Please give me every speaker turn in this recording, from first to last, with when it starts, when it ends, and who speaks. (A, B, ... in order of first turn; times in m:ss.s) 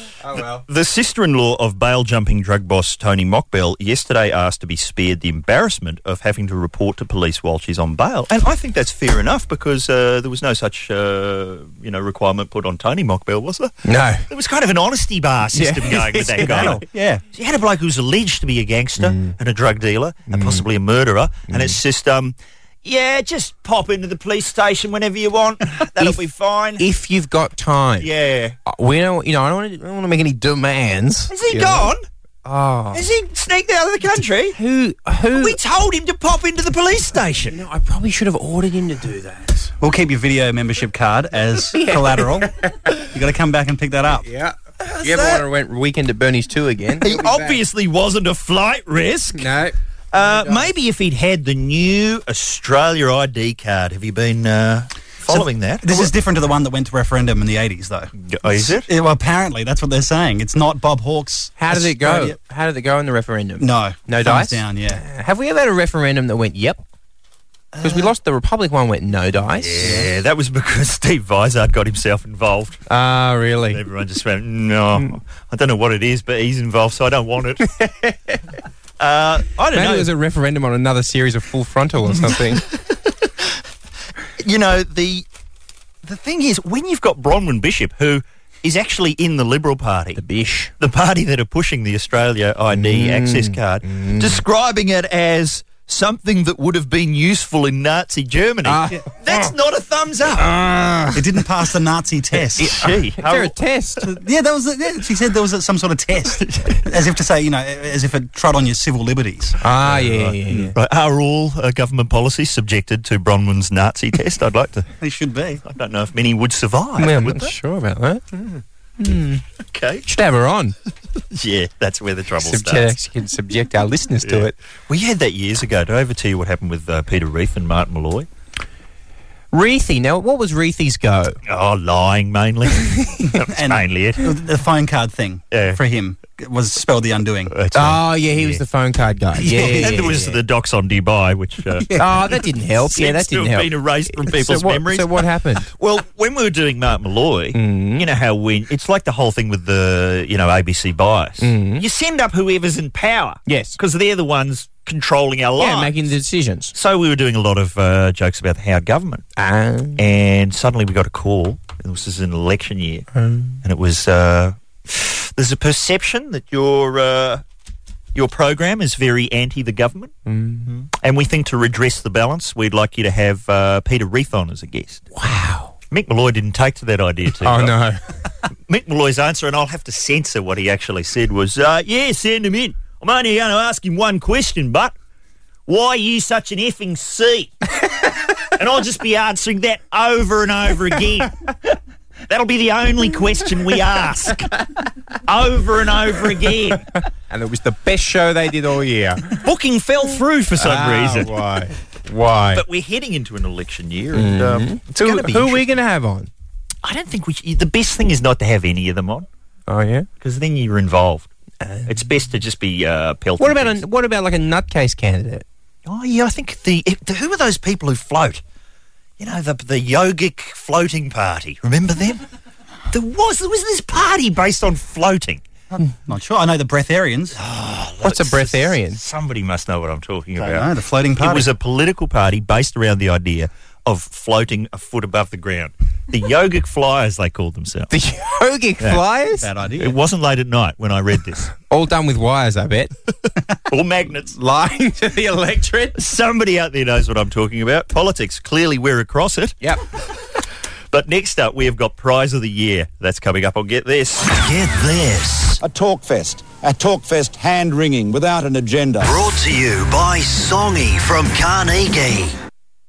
0:00.2-0:00.6 A
0:00.7-0:13.7 B
0:13.8-0:14.2 A
0:14.3-0:16.8 B
0:15.5-0:16.8 A
0:16.4-0:17.2 C
0:17.3-0:26.8 B
0:19.0-0:19.4 A
0:20.3-0:20.6 A
0:21.5-0:21.8 A
0:26.8-0:28.1 A
0:28.0-0:28.6 B
0:28.7-0:31.9 A
0:31.3-0:32.0 B
0:32.4-0:33.0 A
0:32.9-0:34.6 B
0:34.5-0:35.6 A
0:35.3-0:37.6 B
0:37.4-0:39.7 A
0:39.8-0:42.5 C
0:41.7-0:43.0 A
0:43.1-0:44.2 C
0:44.2-0:47.6 A
0:44.8-0:45.4 B
0:47.0-0:49.5 B
0:49.4-0:50.7 A
0:50.1-0:56.1 B
0:55.3-0:58.1 C
0:58.2-0:58.9 B
0:58.7-1:02.4 C
1:01.6-1:06.8 A
1:03.6-1:05.0 C
1:07.7-1:08.1 C
1:07.8-1:10.0 A
1:09.6-1:12.8 B
1:09.8-1:10.1 C
1:12.9-1:13.8 A
1:13.7-1:17.7 B
1:17.7-1:18.4 A
1:19.0-1:20.1 B
1:19.7-1:22.6 A
1:24.4-1:25.2 B
1:26.0-1:30.2 B
1:30.2-1:30.7 A
1:30.8-1:40.5 B
1:32.7-1:34.4 A
1:38.6-1:39.1 A
1:40.6-1:41.0 A
1:41.1-1:42.9 C
1:42.6-1:43.5 B
1:43.2-1:44.1 A
1:44.0-1:49.6 C
1:46.4-1:46.8 B
1:49.6-1:50.7 A
1:49.9-1:54.9 B
1:55.0-1:55.6 C
1:55.7-1:57.5 B
1:57.0-1:59.4 A
1:59.7-2:00.1 B
2:00.1-2:00.8 A
2:01.3-2:03.0 B
2:02.4-2:04.6 A
2:04.2-2:08.3 B
2:09.5-2:11.4 A
2:11.5-2:14.3 B
2:13.4-2:17.5 C
2:15.5-2:15.8 B
2:17.5-2:18.6 B
2:17.8-2:20.4 A
2:19.4-2:20.1 C
2:19.5-2:22.0 B
2:22.0-2:25.7 A
2:22.8-2:36.0 B
2:27.5-2:28.1 A
2:31.4-2:31.8 A
2:33.5-2:33.8 A
2:35.6-2:36.7 A
2:36.7-2:39.2 B
2:39.4-2:40.0 A
2:40.0-2:43.1 B
2:43.1-2:43.6 A
2:43.6-2:47.4 B
2:48.2-2:50.1 B
2:50.3-2:50.7 A
2:50.7-2:55.1 B
2:55.2-2:55.7 A
2:55.9-2:57.8 B
2:57.4-2:58.0 A
2:58.7-3:04.9 B
3:05.7-3:07.5 B
3:08.6-3:11.8 B
3:12.3-3:14.5 B
3:15.3-3:16.8 B
3:17.3-3:19.4 A
3:19.4-3:21.3 B
3:20.6-3:22.6 A
3:22.5-3:25.7 B
3:24.2-3:26.3 A
3:26.8-3:29.3 B
3:29.7-3:30.1 A
3:30.2-3:31.3 B
3:31.6-3:32.0 A
3:31.9-3:33.8 B
3:33.4-3:35.4 A
3:35.9-3:38.4 B
3:39.2-3:42.2 B
3:42.9-3:45.4 B
3:45.8-3:47.4 C
3:47.4-3:57.9 B
3:48.0-3:49.0 A
3:50.4-3:51.5 C
3:57.9-3:59.5 A
3:59.4-4:00.0 C
3:59.8-4:01.5 B
4:01.6-4:02.9 A
4:03.7-4:04.3 B
4:04.4-4:06.0 A
4:06.0-4:09.6 B
4:10.9-4:14.6 B
4:14.7-4:15.5 D
4:15.6-4:19.2 E
4:19.2-4:22.3 D